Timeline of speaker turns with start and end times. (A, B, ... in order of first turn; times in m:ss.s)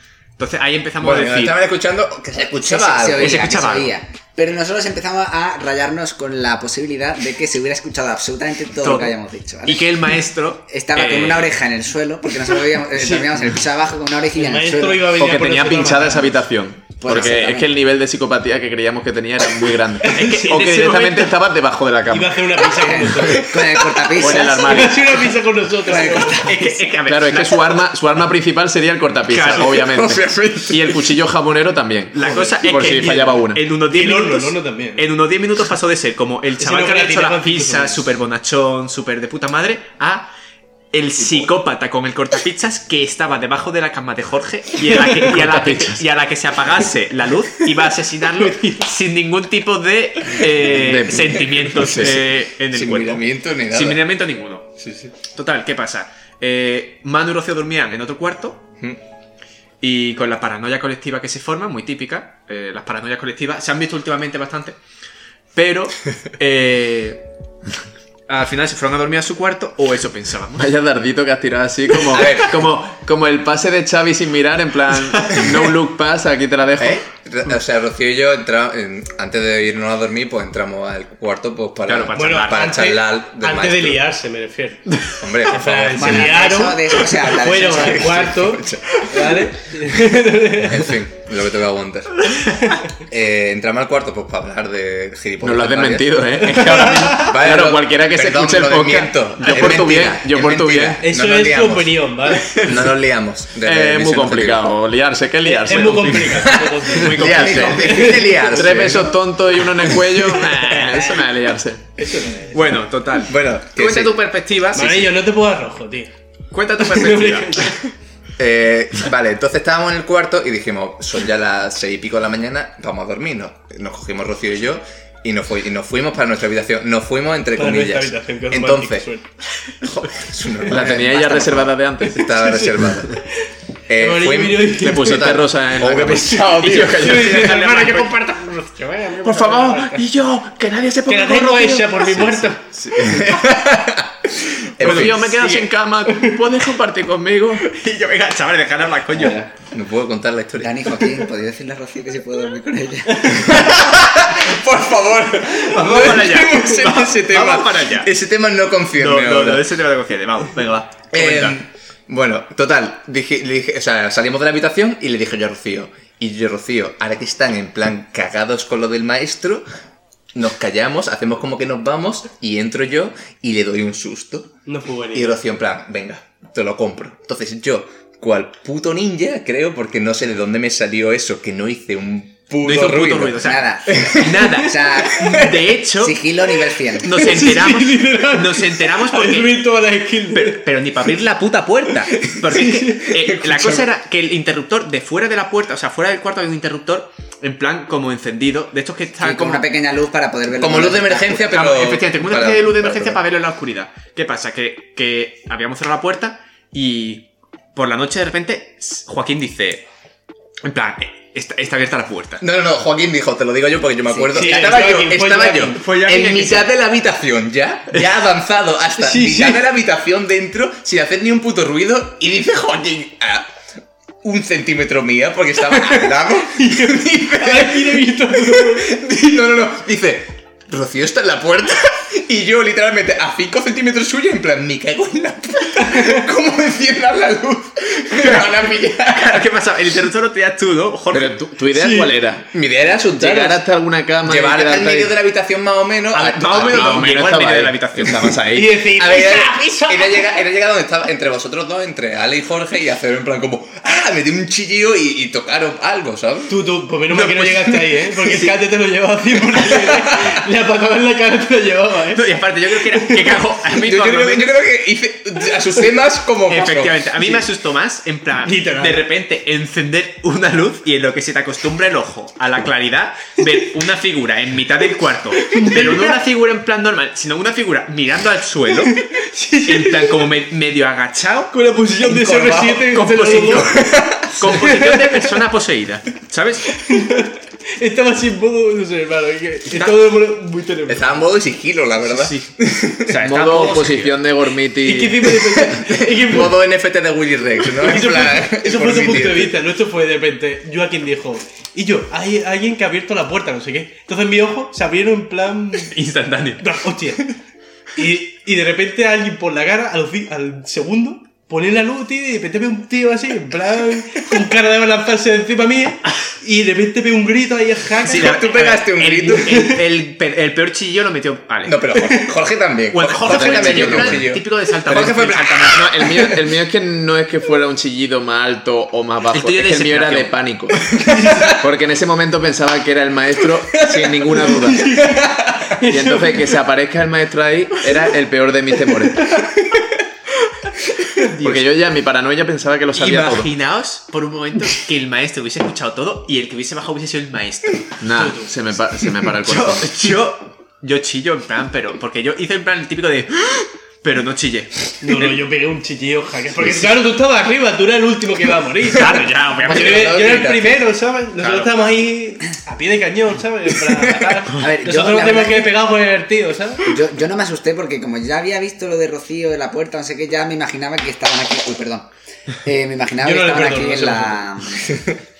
0:00.4-0:01.6 A
0:01.0-0:03.4 B
0:02.6-0:10.1 C
0:03.2-0:03.9 A
0:08.8-0:11.6 A
0:10.7-0:15.1 C
0:14.3-0:16.3 D
0:15.1-0:23.2 E
0:17.0-0:17.7 C
0:20.0-0:20.5 D
0:20.1-0:21.3 A
0:22.1-0:23.4 D
0:23.0-0:25.0 C
0:24.1-0:25.3 E
0:24.6-0:26.5 D
0:25.8-0:26.8 C
0:26.4-0:27.8 A
0:27.0-0:33.6 E
0:29.3-0:30.0 A
0:29.8-0:31.0 B
0:32.1-0:40.3 A
0:33.9-0:35.0 D
0:36.6-0:38.0 D
0:40.9-0:54.7 A
0:41.2-0:41.4 B
0:45.1-0:46.0 E
0:48.5-0:48.8 D
0:50.7-0:52.2 E
0:52.7-0:54.0 B
0:54.8-0:55.1 B
0:55.2-0:58.6 A
0:59.8-1:04.8 A
1:05.5-1:07.2 A
1:08.3-1:10.7 A
1:10.6-1:17.0 E
1:12.1-1:12.6 B
1:12.3-1:12.6 A
1:16.8-1:24.1 B
1:21.8-1:22.8 A
1:22.1-1:24.9 D
1:25.2-1:26.4 B
1:25.5-1:30.9 D
1:25.9-1:28.4 C
1:27.6-1:29.3 B
1:30.4-1:44.7 B
1:35.4-1:41.0 E
1:36.5-1:37.3 D
1:41.0-1:42.6 D
1:43.6-1:46.5 E
1:45.4-1:48.5 D
1:45.7-1:48.3 A
1:46.4-1:50.3 B
1:47.3-1:47.8 E
1:48.4-1:51.8 E
1:52.0-1:52.7 D
1:52.5-1:55.2 A
1:53.3-1:54.2 B
1:54.7-1:56.1 D
1:56.5-1:57.8 A
1:56.8-1:57.8 D
1:58.4-2:09.1 B
2:07.5-2:09.3 D
2:09.8-2:13.2 B
2:10.7-2:12.3 E
2:13.9-2:17.1 B
2:14.0-2:15.3 D
2:14.8-2:17.6 E
2:16.2-2:20.0 D
2:17.0-2:18.2 A
2:19.2-2:22.6 E
2:21.0-2:22.6 D
2:23.0-2:25.4 B
2:24.8-2:27.7 E
2:24.8-2:25.7 A
2:27.7-2:29.4 A
2:29.7-2:31.0 B
2:30.6-2:33.7 C
2:33.4-2:39.6 B
2:35.7-2:38.1 A
2:39.0-2:41.6 A
2:41.1-2:49.6 B
2:50.3-2:54.5 B
2:54.6-2:55.4 D
2:55.1-3:04.4 B
3:02.6-3:06.3 A
3:03.4-3:07.2 C
3:05.2-3:05.6 B
3:07.0-3:09.7 A
3:07.1-3:10.6 D
3:10.3-3:19.7 A
3:12.2-3:13.1 D
3:13.1-3:13.8 B
3:19.2-3:21.6 C
3:20.6-3:23.2 B
3:21.5-3:29.8 A
3:30.6-3:32.4 A
3:32.4-3:43.5 B
3:34.0-3:34.6 C
3:34.3-3:35.8 D
3:35.8-3:36.7 A
3:39.0-3:39.6 D
3:44.2-3:59.5 B
3:45.7-3:49.0 D
3:58.1-4:01.4 A
4:01.1-4:05.2 E
4:01.7-4:02.2 D
4:02.6-4:03.6 B
4:04.2-4:07.2 B
4:06.1-4:08.3 A
4:06.5-4:08.8 E
4:08.5-4:10.3 D
4:08.8-4:16.6 B
4:16.5-4:23.4 D
4:17.1-4:17.7 A
4:19.6-4:20.4 B
4:22.1-4:24.6 A
4:23.7-4:27.1 B
4:26.5-4:39.0 A
4:28.4-4:29.0 D
4:35.5-4:36.1 D
4:39.0-4:40.2 D
4:39.6-4:41.6 A
4:41.5-4:45.4 D
4:42.1-4:42.8 B
4:42.4-4:46.8 A
4:43.8-4:44.7 B
4:46.8-4:51.2 D
4:49.7-4:50.0 A
4:50.9-4:53.2 B
4:52.1-4:52.5 A
4:53.1-4:54.2 A
4:53.2-4:55.4 E
4:54.8-4:56.6 D
4:55.6-4:59.6 B
4:57.7-5:05.9 D
5:05.8-5:06.7 A
5:06.6-5:07.3 D
5:07.9-5:18.4 D
5:18.0-5:21.8 A
5:18.1-5:19.7 B
5:19.4-5:19.8 D
5:21.6-5:26.4 B
5:21.9-5:22.3 D
5:22.9-5:25.9 A
5:23.2-5:24.3 E
5:25.7-5:30.9 E
5:29.3-5:30.3 A
5:31.0-5:31.6 D
5:31.6-5:35.0 E
5:33.8-5:35.6 B
5:34.5-5:35.2 D
5:35.8-5:36.5 D
5:35.8-5:39.3 E
5:41.3-5:41.7 A
5:41.4-5:43.5 E
5:42.9-5:47.9 A
5:48.0-5:49.9 E
5:48.1-5:48.5 D
5:49.4-5:55.4 A
5:55.0-5:59.1 D
5:58.9-6:00.4 A
5:59.0-6:00.8 B
5:59.7-6:06.8 D
6:01.4-6:01.7 A
6:04.6-6:05.7 C
6:06.8-6:12.1 C
6:12.6-6:15.0 C
6:13.2-6:14.4 D